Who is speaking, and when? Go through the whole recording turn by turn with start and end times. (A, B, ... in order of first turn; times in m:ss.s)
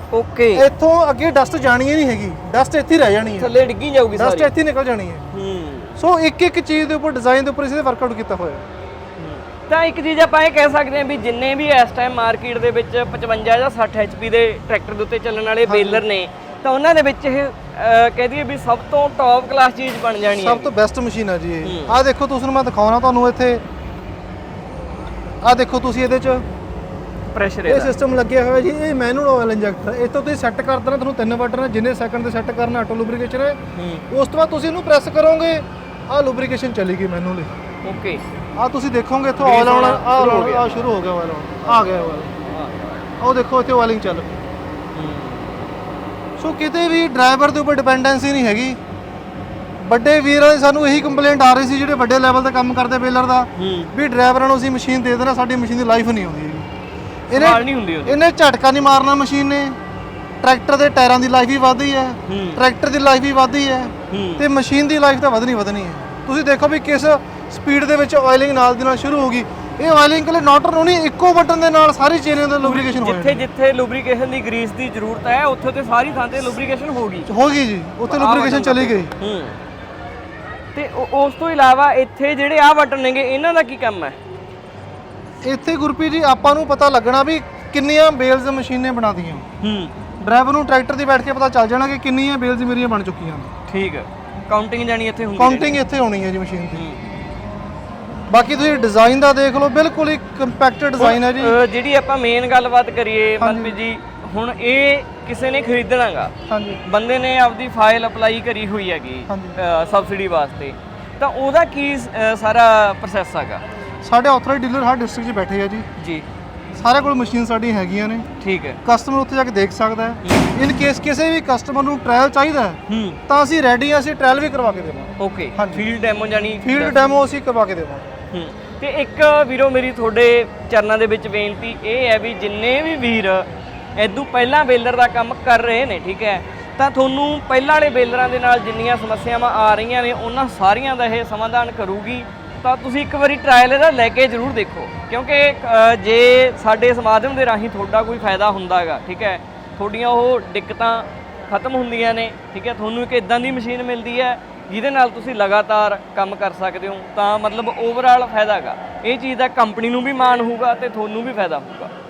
0:00.1-0:00.7 A
0:00.5-0:03.6 B
0:03.4-0:04.5 A
0:04.1-0:05.3 B
0:05.3-0:05.9 A
0:06.0-0:08.7 B
0:09.2-0:20.7 A
0:15.7-0:16.1 B
0:20.4-0:23.6 B
0:21.6-0:22.0 A
0:25.4-0:26.4 B
0:27.3-0:28.0 A
0:27.7-0:33.6 B
0:33.8-0:34.0 A
0:34.1-0:37.6 B
0:37.8-0:38.2 A
0:38.6-0:42.4 B
0:39.4-0:41.0 A
0:41.6-0:43.0 A
0:43.2-0:44.4 B
0:44.9-0:45.7 A
0:46.4-0:48.8 B
0:49.8-0:56.7 B
0:53.6-0:53.9 A
0:57.3-0:59.8 B
0:57.3-0:58.2 A
1:00.4-1:13.5 B
1:02.3-1:02.6 A
1:04.1-1:04.5 A
1:12.6-1:17.3 A
1:17.3-1:19.1 B
1:18.1-1:19.6 A
1:20.8-1:24.2 A
1:25.4-1:29.5 B
1:29.6-1:29.9 A
1:30.2-1:33.5 B
1:33.7-1:35.8 A
1:35.4-1:36.9 B
1:36.8-1:37.0 A
1:38.3-1:41.6 B
1:41.0-1:46.3 A
1:43.4-1:43.8 B
1:46.5-1:46.8 B
1:46.8-1:53.6 A
1:49.3-1:49.6 B
1:54.0-1:55.9 B
1:56.0-1:56.3 A
1:56.8-1:58.3 B
1:58.4-1:58.8 A
1:58.8-2:05.9 B
2:00.2-2:00.6 A
2:02.9-2:03.2 A
2:05.2-2:07.0 A
2:06.6-2:08.1 B
2:08.3-2:41.9 A